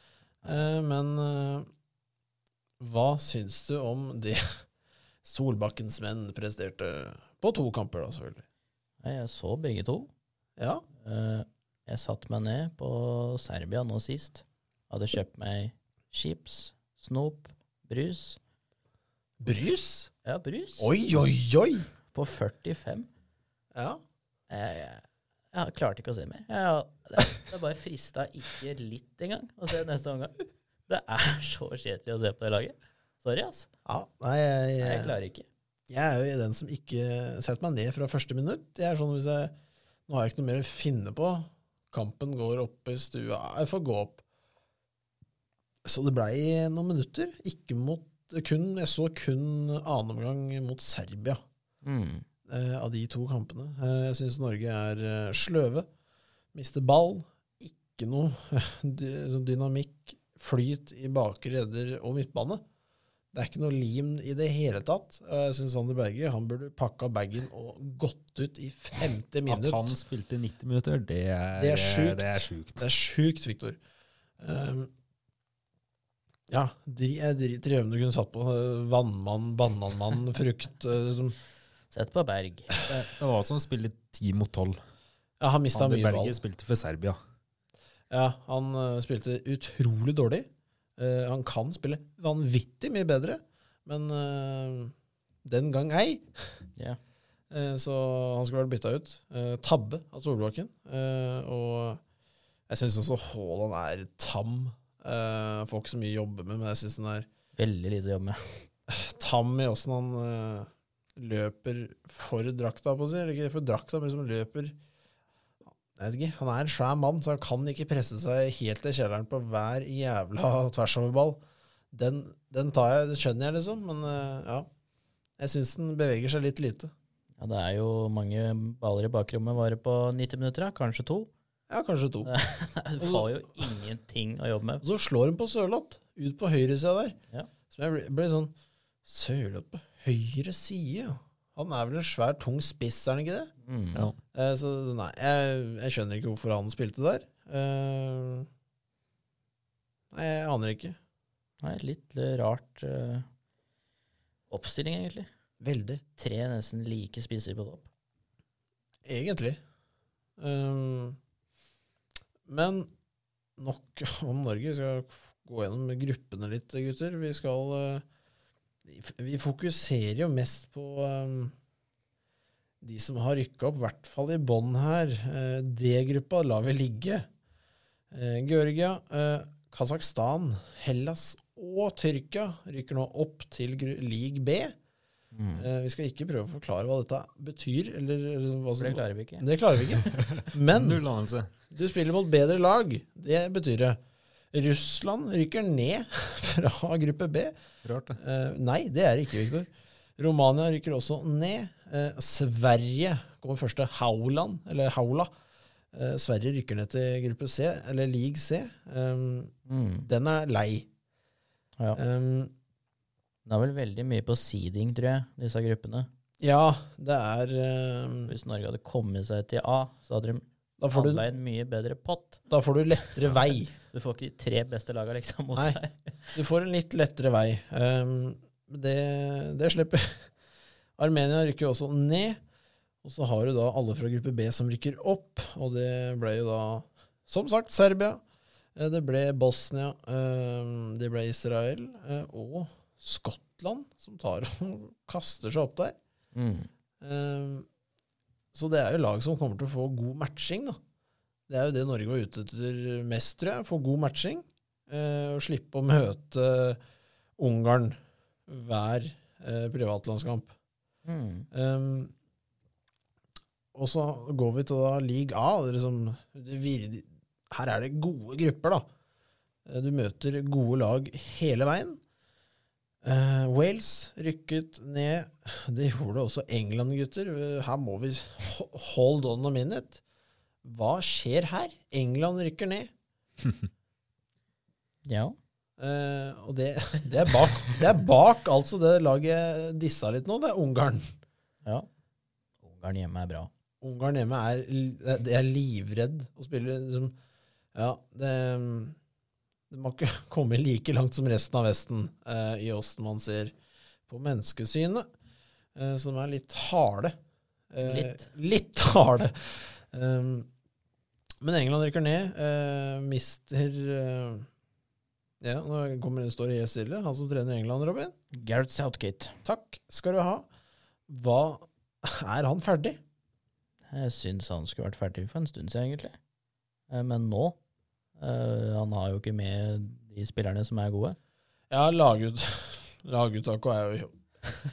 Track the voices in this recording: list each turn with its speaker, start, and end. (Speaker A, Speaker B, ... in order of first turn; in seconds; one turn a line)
Speaker A: 0.4-1.7
Speaker A: 2.8-4.6
Speaker A: 5.2-8.4
Speaker B: 9.0-10.1
Speaker A: 10.6-10.8
Speaker B: 11.0-18.4
Speaker A: 19.4-20.1
Speaker B: 20.2-20.9
Speaker A: 20.8-21.9
Speaker B: 22.1-23.1
Speaker A: 23.7-24.0
Speaker B: 24.5-33.7
Speaker A: 33.9-35.2
Speaker B: 34.8-35.5
Speaker A: 35.9-39.5
Speaker A: 40.1-44.2
Speaker A: 45.8-51.4
Speaker B: 51.8-52.3
Speaker A: 52.5-55.9
Speaker A: 56.5-62.6
Speaker A: 63.3-70.0
Speaker C: 69.5-72.9
Speaker A: 71.6-73.8
Speaker A: 74.4-74.9
Speaker A: 76.5-81.4
Speaker B: 81.9-82.7
Speaker C: 82.8-84.8
Speaker A: 85.4-86.4
Speaker C: 85.7-87.2
Speaker A: 88.1-94.9
Speaker A: 95.5-96.5
Speaker A: 97.5-102.0
Speaker A: 102.7-107.3
Speaker B: 107.6-108.7
Speaker A: 108.9-114.8
Speaker A: 116.0-121.4
Speaker A: 121.9-124.7
Speaker A: 125.4-126.9
Speaker B: 127.4-131.3
Speaker A: 131.7-132.3
Speaker B: 132.2-134.8
Speaker A: 133.0-133.8
Speaker A: 134.8-137.2
Speaker A: 137.7-143.5
Speaker B: 143.6-144.1
Speaker A: 144.3-148.5
Speaker A: 150.1-151.0
Speaker B: 151.6-153.3
Speaker B: 154.5-155.3
Speaker A: 155.6-156.0
Speaker B: 156.2-157.9
Speaker A: 159.1-159.6
Speaker A: 160.4-161.2
Speaker A: 162.5-162.9
Speaker A: 163.6-168.1
Speaker A: 168.8-171.6
Speaker A: 172.8-177.3
Speaker A: 178.1-184.8
Speaker B: 185.3-185.7
Speaker A: 185.6-191.0
Speaker B: 188.8-189.5
Speaker C: 190.1-191.5
Speaker A: 191.7-194.0
Speaker A: 194.5-197.6
Speaker C: 197.8-198.2
Speaker A: 198.2-205.3
Speaker A: 205.9-209.5
Speaker B: 209.7-210.1
Speaker A: 210.1-210.9
Speaker A: 211.9-212.5
Speaker B: 213.5-216.1
Speaker A: 216.4-218.3
Speaker B: 218.3-222.4
Speaker A: 220.8-221.2
Speaker A: 222.5-223.7
Speaker B: 223.7-226.4
Speaker A: 226.3-230.3
Speaker A: 231.0-232.4
Speaker A: 233.0-238.2
Speaker A: 238.8-246.0
Speaker B: 246.3-246.7
Speaker A: 247.0-247.7
Speaker A: 248.5-250.8
Speaker A: 251.5-256.8
Speaker A: 257.4-260.5
Speaker B: 261.1-261.5
Speaker A: 261.5-262.1
Speaker A: 263.7-268.9
Speaker A: 269.7-272.0
Speaker A: 273.0-280.0
Speaker A: 280.6-282.9
Speaker B: 285.1-285.4
Speaker A: 285.8-291.1
Speaker B: 292.6-293.5
Speaker A: 293.8-297.1
Speaker A: 297.7-299.0
Speaker A: 299.7-303.5
Speaker A: 304.1-305.1
Speaker A: 305.8-307.2
Speaker A: 307.7-310.5
Speaker B: 307.8-308.3
Speaker A: 311.4-314.5
Speaker A: 315.4-318.1
Speaker B: 318.3-319.4
Speaker A: 319.4-320.5
Speaker A: 321.1-323.0
Speaker B: 323.9-326.2
Speaker B: 326.9-327.6
Speaker B: 328.2-331.2
Speaker A: 331.7-334.1